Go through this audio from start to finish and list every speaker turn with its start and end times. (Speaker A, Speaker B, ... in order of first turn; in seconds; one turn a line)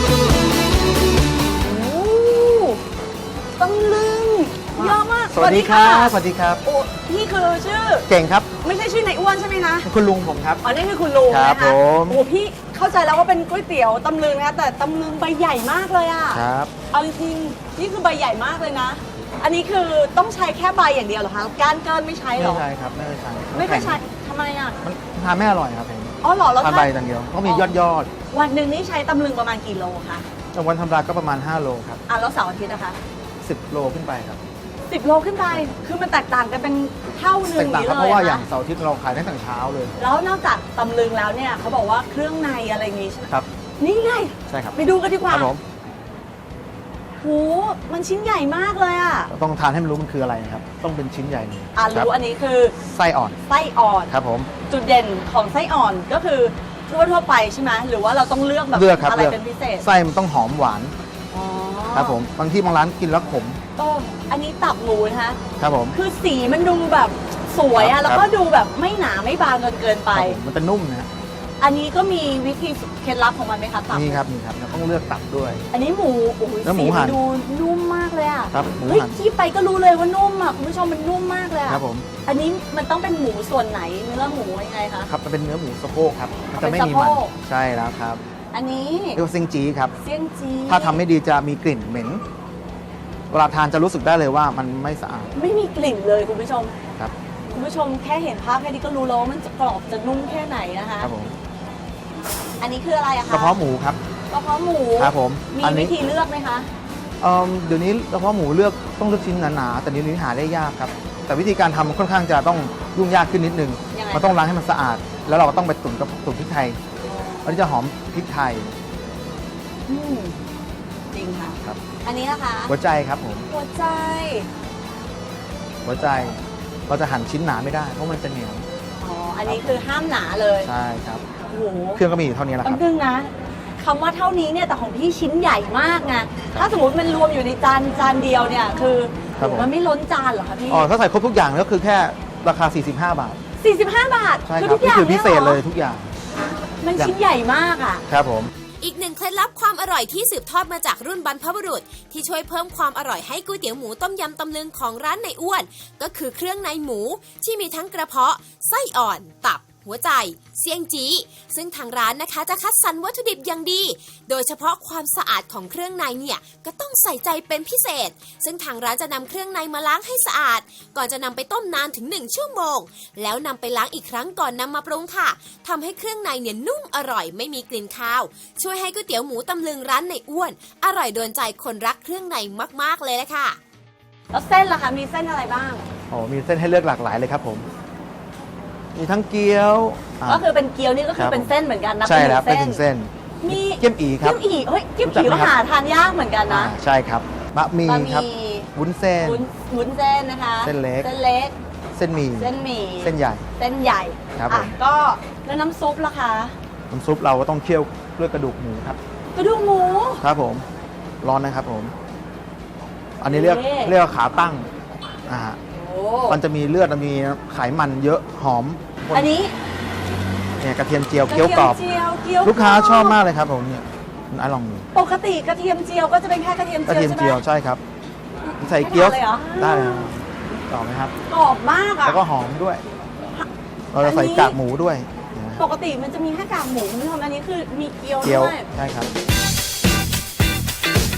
Speaker A: 1.6-2.8
Speaker A: 3.6-9.9
Speaker B: 4.8-6.6
Speaker B: 8.1-8.5
Speaker B: 9.8-10.6
Speaker A: 10.6-22.6
Speaker B: 11.3-12.2
Speaker B: 16.3-16.7
Speaker B: 22.4-24.0
Speaker A: 23.5-24.8
Speaker B: 24.8-28.1
Speaker A: 26.2-26.9
Speaker A: 27.4-27.8
Speaker A: 28.3-30.2
Speaker B: 30.5-32.0
Speaker A: 32.1-33.0
Speaker B: 33.4-34.4
Speaker A: 34.9-38.5
Speaker B: 35.5-35.7
Speaker B: 37.5-40.0
Speaker A: 40.0-45.5
Speaker B: 44.5-44.8
Speaker B: 45.3-45.6
Speaker A: 47.2-49.3
Speaker B: 49.3-52.1
Speaker A: 51.8-52.8
Speaker B: 52.8-53.4
Speaker A: 53.5-54.1
Speaker B: 54.1-54.5
Speaker A: 54.7-59.9
Speaker B: 58.7-61.0
Speaker A: 61.3-62.2
Speaker B: 61.9-63.6
Speaker A: 63.8-65.4
Speaker B: 65.6-66.0
Speaker A: 65.9-70.4
Speaker B: 67.8-68.2
Speaker B: 70.1-71.1
Speaker A: 71.6-74.2
Speaker B: 73.9-75.6
Speaker A: 75.7-85.1
Speaker B: 76.6-77.2
Speaker B: 78.5-79.2
Speaker B: 81.7-82.1
Speaker B: 85.1-88.2
Speaker A: 86.5-87.3
Speaker A: 88.5-89.2
Speaker B: 89.2-89.9
Speaker A: 90.0-91.0
Speaker B: 90.7-92.2
Speaker B: 93.3-95.3
Speaker A: 95.3-96.7
Speaker A: 97.5-101.1
Speaker B: 101.0-101.4
Speaker A: 102.6-103.6
Speaker B: 103.3-104.0
Speaker A: 104.3-106.7
Speaker B: 105.0-105.9
Speaker B: 107.2-116.8
Speaker A: 113.9-114.4
Speaker A: 117.1-117.4
Speaker B: 117.4-118.7
Speaker A: 119.9-120.4
Speaker A: 121.1-122.8
Speaker B: 122.7-123.5
Speaker A: 123.5-124.5
Speaker B: 125.8-128.7
Speaker A: 129.0-130.7
Speaker B: 129.5-129.8
Speaker B: 130.6-131.2
Speaker A: 131.5-132.0
Speaker B: 132.0-132.8
Speaker A: 132.6-140.9
Speaker B: 139.4-139.7
Speaker B: 140.7-143.4
Speaker A: 143.6-145.6
Speaker B: 144.5-146.1
Speaker A: 146.8-148.1
Speaker B: 148.1-148.5
Speaker C: 148.8-183.6
Speaker A: 184.3-185.9
Speaker B: 186.1-187.7
Speaker B: 188.9-190.5
Speaker A: 190.2-192.8
Speaker B: 191.2-191.5
Speaker B: 192.0-194.4
Speaker A: 193.4-196.8
Speaker B: 195.0-195.6
Speaker B: 196.5-199.4
Speaker A: 197.9-198.7
Speaker A: 199.2-201.6
Speaker B: 200.6-201.1
Speaker B: 202.0-203.5
Speaker A: 202.4-206.6
Speaker B: 204.3-204.7
Speaker B: 206.9-209.0
Speaker A: 209.3-210.3
Speaker B: 210.2-210.7
Speaker B: 211.2-211.9
Speaker B: 213.2-214.7
Speaker A: 213.2-214.0
Speaker B: 215.3-215.6
Speaker A: 215.7-216.4
Speaker B: 216.3-219.3
Speaker A: 219.1-219.6
Speaker B: 220.6-221.8
Speaker A: 221.3-223.2
Speaker B: 222.4-224.9
Speaker A: 224.9-227.4
Speaker B: 226.9-227.8
Speaker A: 228.5-230.1
Speaker B: 228.6-231.1
Speaker A: 231.3-232.2
Speaker B: 232.0-232.8
Speaker A: 233.3-234.6
Speaker B: 233.9-235.6
Speaker A: 235.6-238.7
Speaker B: 238.2-239.1